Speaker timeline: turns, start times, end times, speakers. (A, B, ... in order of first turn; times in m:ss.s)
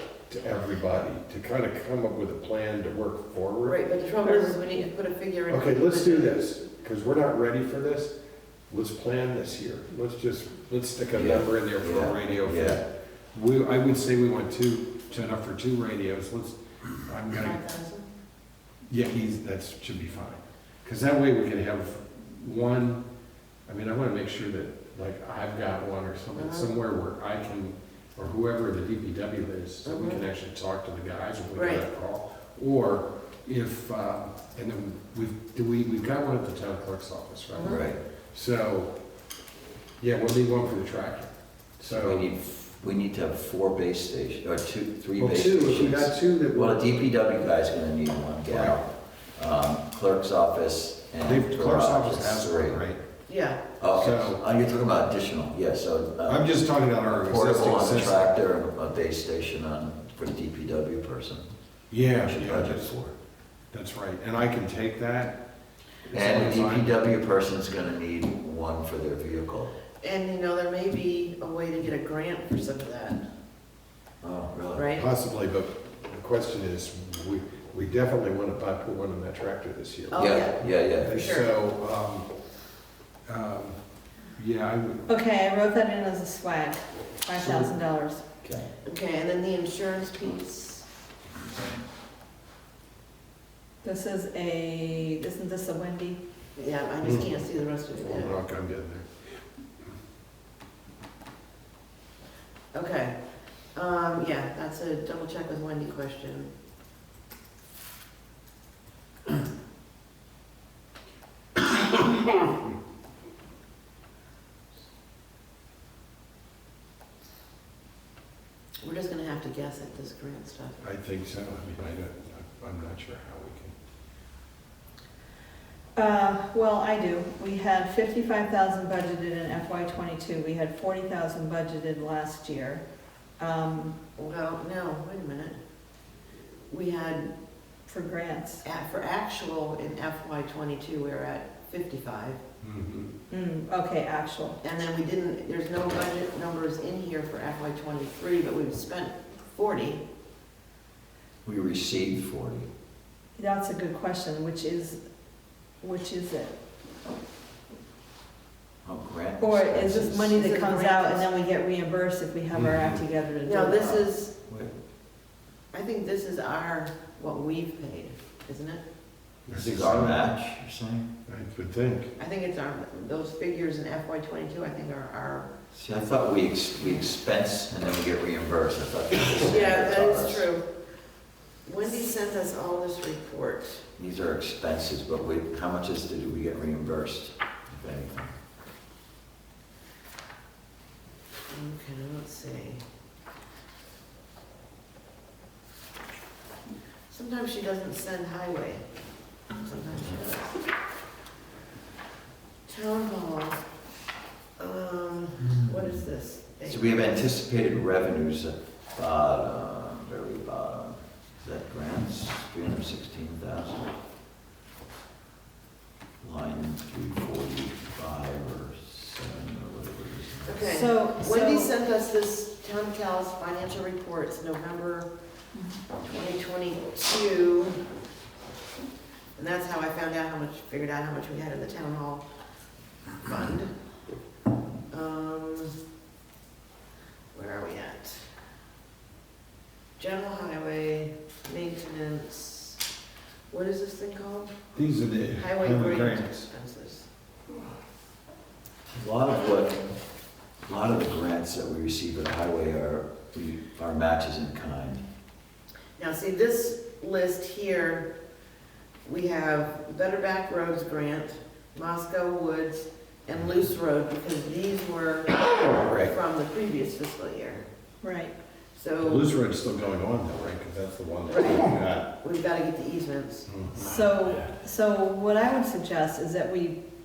0:00.3-0:04.6 A
0:03.6-0:06.4 B
0:05.5-0:08.1 A
0:08.7-0:17.6 A
0:11.1-0:12.8 C
0:17.3-0:18.1 B
0:18.9-0:23.0 A
0:23.7-0:38.9 A
0:26.3-0:26.7 B
0:29.8-0:30.2 B
0:31.5-0:31.9 B
0:37.5-0:37.9 B
0:37.6-0:38.0 C
0:40.0-0:42.3 A
0:41.9-0:52.8 C
0:45.2-0:47.0 A
0:48.5-0:48.8 A
0:51.2-0:53.0 A
0:53.3-0:53.7 B
0:53.8-1:01.4 C
0:53.9-0:54.4 A
0:56.2-0:58.3 A
1:01.9-1:03.0 A
1:02.1-1:03.1 C
1:03.7-1:05.4 A
1:06.1-1:06.9 A
1:06.1-1:09.7 C
1:10.0-1:13.2 B
1:14.2-1:14.9 C
1:14.7-1:15.1 B
1:15.0-1:22.3 A
1:20.1-1:21.5 B
1:20.2-1:21.2 C
1:23.3-1:25.1 A
1:25.1-1:28.2 D
1:27.4-1:27.7 A
1:28.4-1:28.7 C
1:28.8-1:30.8 B
1:33.8-1:36.2 D
1:36.6-1:38.4 B
1:37.0-1:37.3 A
1:38.0-1:39.1 A
1:42.7-1:43.2 B
1:43.7-1:46.5 B
1:58.8-2:00.8 B
2:00.8-2:03.7 A
2:06.0-2:12.8 D
2:13.4-2:14.0 D
2:14.2-2:15.6 B
2:16.7-2:17.3 B
2:17.9-2:18.6 D
2:18.6-2:22.4 B
2:22.6-2:23.1 A
2:23.3-2:24.6 D
2:24.6-2:30.0 B
2:31.4-2:32.7 C
2:33.4-2:35.0 D
2:35.8-2:36.5 D
2:38.8-2:40.3 C
2:39.4-2:44.0 D
2:40.3-2:41.3 B
2:42.5-2:43.0 A
2:43.4-2:44.3 B
2:44.5-2:44.7 C
2:45.7-2:48.8 B
2:49.4-2:50.2 A
2:49.5-2:51.1 C
2:51.3-2:52.1 A
2:52.2-2:55.5 B
2:55.7-3:00.5 C
2:59.4-3:00.6 B
3:01.6-3:03.8 B
3:04.0-3:08.3 C
3:11.5-3:12.8 B
3:17.1-3:18.8 B
3:19.6-3:20.6 B
3:22.7-3:23.6 B
3:24.6-3:27.3 B
3:25.5-3:25.8 C
3:26.6-3:33.9 C
3:36.2-3:40.6 C
3:40.4-3:45.1 B
3:40.6-3:41.7 D
3:45.5-3:45.8 D
3:46.0-3:47.8 B
3:49.4-3:52.2 B
3:53.2-3:53.7 B
3:54.9-3:55.7 B
3:57.3-3:58.3 B
4:00.0-4:02.8 B
4:03.5-4:04.7 B
4:04.7-4:06.5 A
4:05.4-4:07.1 B
4:08.9-4:09.8 C
4:10.6-4:15.0 C
4:16.0-4:18.1 B
4:19.0-4:27.6 B
4:25.6-4:26.1 A
4:28.0-4:28.3 D
4:28.7-4:29.3 B
4:29.0-4:32.1 A
4:31.3-4:33.5 B
4:33.5-4:34.0 A
4:33.8-4:36.8 D